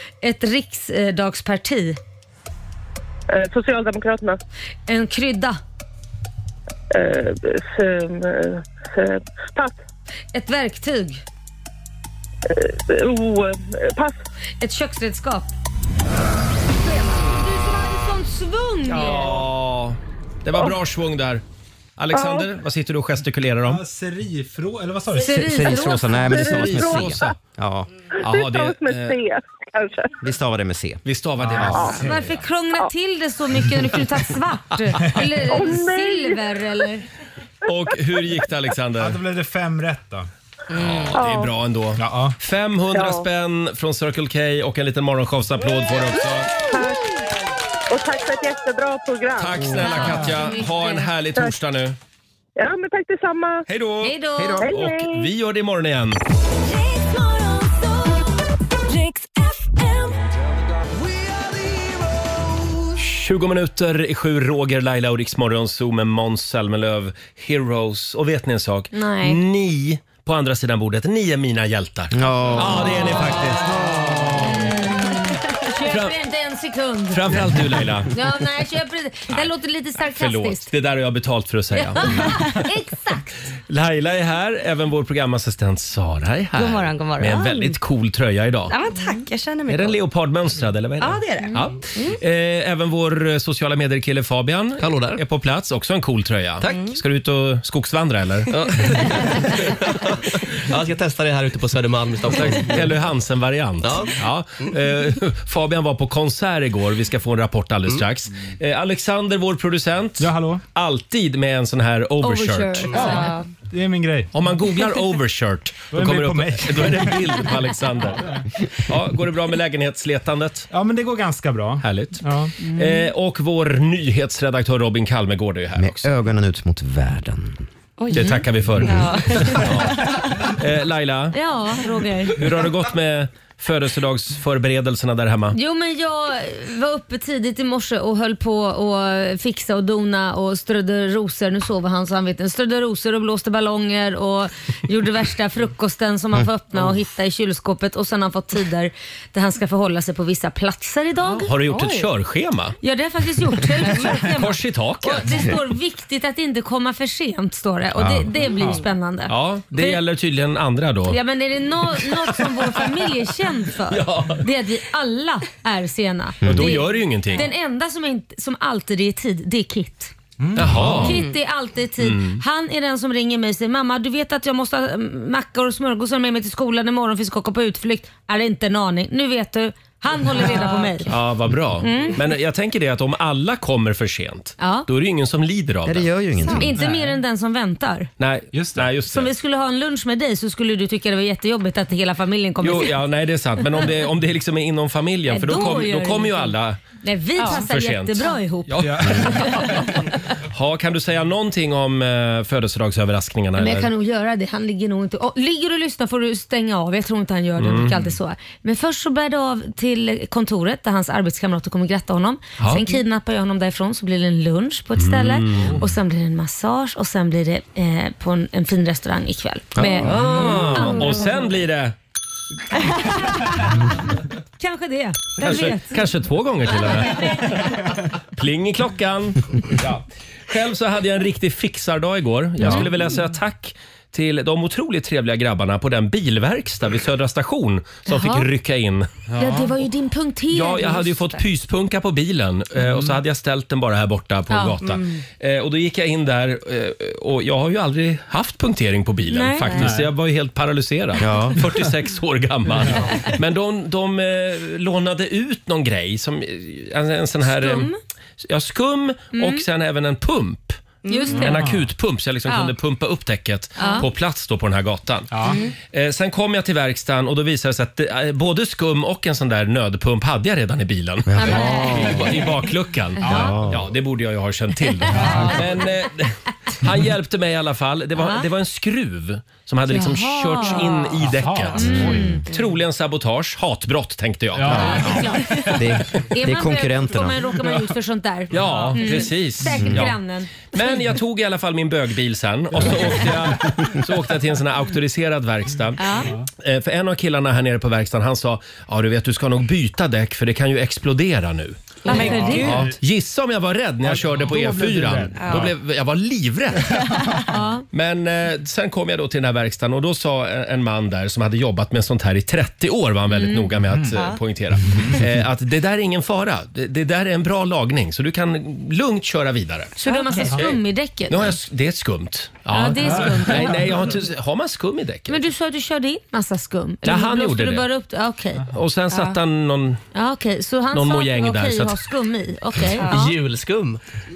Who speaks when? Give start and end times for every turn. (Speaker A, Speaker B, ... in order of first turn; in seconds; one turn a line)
Speaker A: 0.2-2.0
Speaker B: 3.3-4.4
Speaker A: 4.9-5.6
Speaker B: 6.9-9.8
Speaker A: 10.3-11.2
Speaker B: 12.5-14.2
Speaker A: 14.6-15.5
Speaker A: 16.9-19.4
Speaker C: 18.9-21.4
Speaker C: 22.0-23.8
Speaker B: 22.1-22.5
Speaker D: 23.6-25.7
Speaker A: 25.2-26.3
Speaker E: 25.2-27.9
Speaker B: 26.3-27.2
Speaker C: 26.3-27.4
Speaker C: 28.2-29.2
Speaker B: 28.2-30.1
Speaker E: 30.2-31.0
Speaker C: 31.1-32.0
Speaker D: 31.4-32.3
Speaker B: 31.7-32.0
Speaker A: 31.9-37.0
Speaker B: 35.5-36.4
Speaker C: 37.7-39.2
Speaker D: 39.0-40.3
Speaker C: 40.7-46.5
Speaker B: 41.1-41.5
Speaker D: 42.0-42.4
Speaker B: 42.9-43.2
Speaker B: 46.7-47.1
Speaker B: 47.9-49.8
Speaker C: 49.4-52.0
Speaker A: 49.8-51.1
Speaker D: 49.9-50.2
Speaker B: 52.6-53.6
Speaker C: 53.7-56.2
Speaker A: 54.0-54.7
Speaker B: 54.6-55.3
Speaker F: 56.6-60.2
Speaker C: 63.0-74.5
Speaker A: 68.9-69.4
Speaker E: 72.1-74.5
Speaker A: 74.5-77.5
Speaker C: 75.9-76.2
Speaker C: 77.1-78.1
Speaker A: 78.1-80.7
Speaker C: 79.3-82.5
Speaker A: 81.8-83.3
Speaker C: 83.7-88.7
Speaker G: 86.5-87.8
Speaker G: 88.7-90.0
Speaker C: 89.7-99.5
Speaker G: 91.0-92.2
Speaker H: 94.8-95.2
Speaker G: 96.7-96.9
Speaker H: 98.9-102.9
Speaker C: 102.3-113.3
Speaker H: 103.8-104.7
Speaker D: 110.2-110.6
Speaker G: 112.2-113.5
Speaker D: 112.9-114.3
Speaker C: 114.3-120.7
Speaker D: 115.9-117.5
Speaker D: 118.1-118.5
Speaker D: 120.7-122.5
Speaker C: 121.8-126.1
Speaker E: 125.8-127.7
Speaker G: 128.0-130.3
Speaker C: 128.1-131.4
Speaker A: 131.3-132.4
Speaker C: 132.3-135.6
Speaker A: 135.5-151.5
Speaker C: 151.2-152.8
Speaker G: 151.7-152.1
Speaker A: 152.8-160.0
Speaker C: 153.9-155.5
Speaker E: 157.9-158.4
Speaker C: 159.3-161.2
Speaker A: 161.1-170.1
Speaker C: 162.2-162.7
Speaker C: 163.9-164.5
Speaker E: 166.4-166.8
Speaker C: 166.4-167.5
Speaker D: 170.4-171.1
Speaker C: 170.6-171.2
Speaker A: 171.0-181.1
Speaker C: 172.0-172.4
Speaker G: 180.5-181.0
Speaker C: 181.1-186.1
Speaker A: 181.8-182.2
Speaker A: 184.6-184.9
Speaker E: 185.8-186.7
Speaker A: 186.6-188.1
Speaker D: 186.8-187.2
Speaker C: 188.2-189.3
Speaker D: 188.5-188.9
Speaker A: 189.1-193.0
Speaker C: 192.6-196.8
Speaker A: 195.3-199.7
Speaker G: 197.4-197.7
Speaker C: 197.4-203.9
Speaker D: 198.8-199.7
Speaker A: 203.6-221.3
Speaker C: 207.6-208.0
Speaker C: 212.6-212.9
Speaker C: 215.0-215.8
Speaker E: 219.8-220.1
Speaker C: 219.8-221.9
Speaker A: 223.0-223.7
Speaker A: 224.6-226.0
Speaker C: 225.4-227.8
Speaker A: 226.9-227.7
Speaker C: 228.3-239.3
Speaker A: 238.1-238.5
Speaker D: 239.3-239.7
Speaker A: 239.4-241.3
Speaker C: 240.5-265.4
Speaker D: 242.8-243.1
Speaker A: 244.5-244.8
Speaker A: 249.3-249.9
Speaker D: 249.8-250.1
Speaker E: 251.2-251.7
Speaker A: 257.5-258.0
Speaker A: 259.3-259.6
Speaker G: 261.1-261.4
Speaker A: 261.1-261.6
Speaker D: 261.3-261.9
Speaker A: 262.5-262.7
Speaker A: 263.8-264.1
Speaker D: 265.3-265.6
Speaker C: 265.9-285.4
Speaker E: 271.3-272.4
Speaker A: 271.4-272.2
Speaker D: 273.2-273.7
Speaker A: 273.2-273.5
Speaker E: 273.3-273.8
Speaker D: 275.1-275.7
Speaker A: 279.9-281.1
Speaker D: 281.2-282.3
Speaker A: 281.7-282.4
Speaker E: 281.8-282.4
Speaker D: 284.5-285.8
Speaker A: 284.7-285.8
Speaker E: 285.7-287.4
Speaker A: 286.3-291.0
Speaker C: 288.5-290.2
Speaker D: 288.5-289.3
Speaker E: 289.7-290.1
Speaker C: 290.7-307.3
Speaker D: 292.9-293.8
Speaker A: 296.0-296.3
Speaker A: 302.1-302.9
Speaker G: 302.1-302.9
Speaker D: 302.1-302.9
Speaker D: 304.0-305.7
Speaker G: 305.4-305.7
Speaker A: 307.5-307.9
Speaker C: 307.9-320.8
Speaker A: 313.3-313.7
Speaker A: 320.0-321.6
Speaker G: 320.1-320.5
Speaker C: 321.3-325.4
Speaker A: 322.7-323.8
Speaker D: 323.1-323.7
Speaker A: 325.3-328.7
Speaker C: 327.0-327.9
Speaker C: 328.7-330.0
Speaker A: 330.1-333.3
Speaker C: 330.9-332.0
Speaker G: 333.0-333.3
Speaker H: 333.1-334.0